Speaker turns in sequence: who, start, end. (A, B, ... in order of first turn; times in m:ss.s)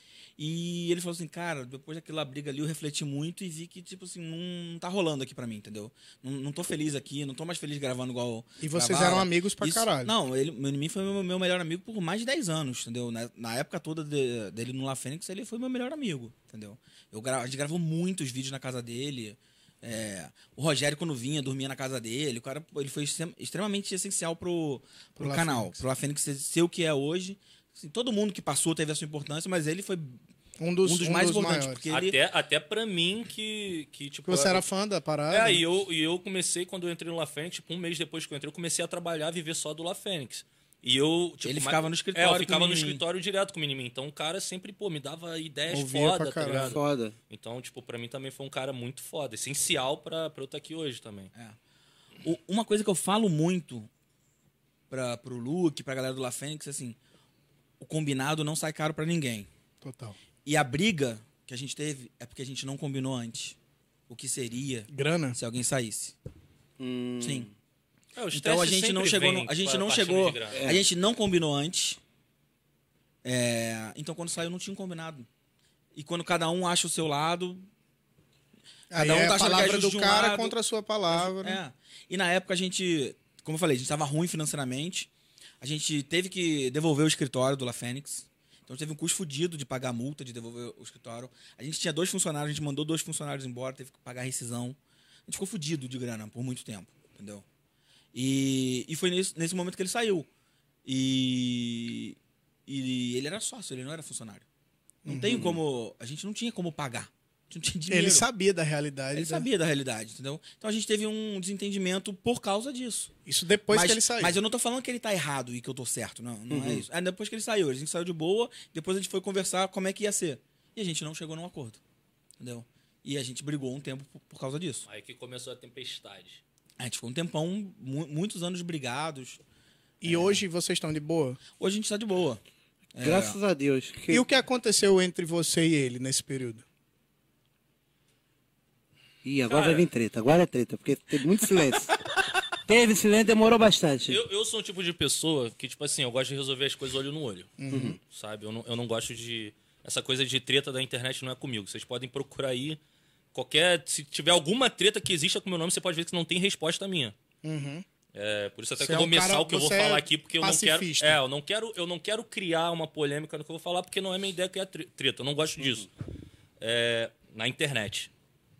0:00.4-0:30.2 A
0:08.6-0:10.1 B
0:25.2-0:25.8 B
0:30.6-0:31.8 B
0:30.8-0:32.2 A
0:31.9-0:34.6 C
0:34.3-0:35.6 B
0:35.3-0:51.3 C
0:41.4-0:43.0 A
0:45.7-0:46.8 B
0:46.6-0:47.1 D
0:52.2-0:53.9 A
0:54.9-0:57.0 A
0:57.8-0:59.5 A
0:59.8-1:00.2 B
1:00.4-1:03.6 A
1:04.1-1:06.1 A
1:04.9-1:05.4 B
1:06.8-1:07.5 D
1:07.2-1:07.5 A
1:08.2-1:10.6 C
1:08.3-1:12.0 A
1:10.5-1:10.8 D
1:13.2-1:15.3 A
1:15.9-1:17.6 A
1:18.9-1:21.6 B
1:18.9-1:20.6 A
1:21.1-1:25.1 A
1:25.6-1:37.4 A
1:38.1-1:40.3 A
1:40.8-1:44.4 A
1:45.0-1:45.5 B
1:45.0-1:48.3 A
1:47.9-1:49.4 B
1:49.1-1:53.1 A
1:53.2-1:54.3 B
1:53.7-2:01.8 A
1:56.5-1:56.8 D
2:02.4-2:04.8 A
2:04.9-2:06.4 C
2:06.8-2:09.4 A
2:10.0-2:11.4 B
2:10.0-2:10.4 A
2:11.6-2:12.4 A
2:12.9-2:13.4 A
2:13.0-2:14.2 D
2:14.1-2:16.6 B
2:19.2-2:21.9 D
2:19.5-2:19.9 C
2:22.6-2:24.2 D
2:24.1-2:32.8 C
2:27.6-2:28.0 B
2:27.7-2:28.0 D
2:33.3-2:37.1 C
2:37.4-2:37.8 B
2:38.1-2:45.9 C
2:38.8-2:41.2 B
2:46.6-2:48.1 C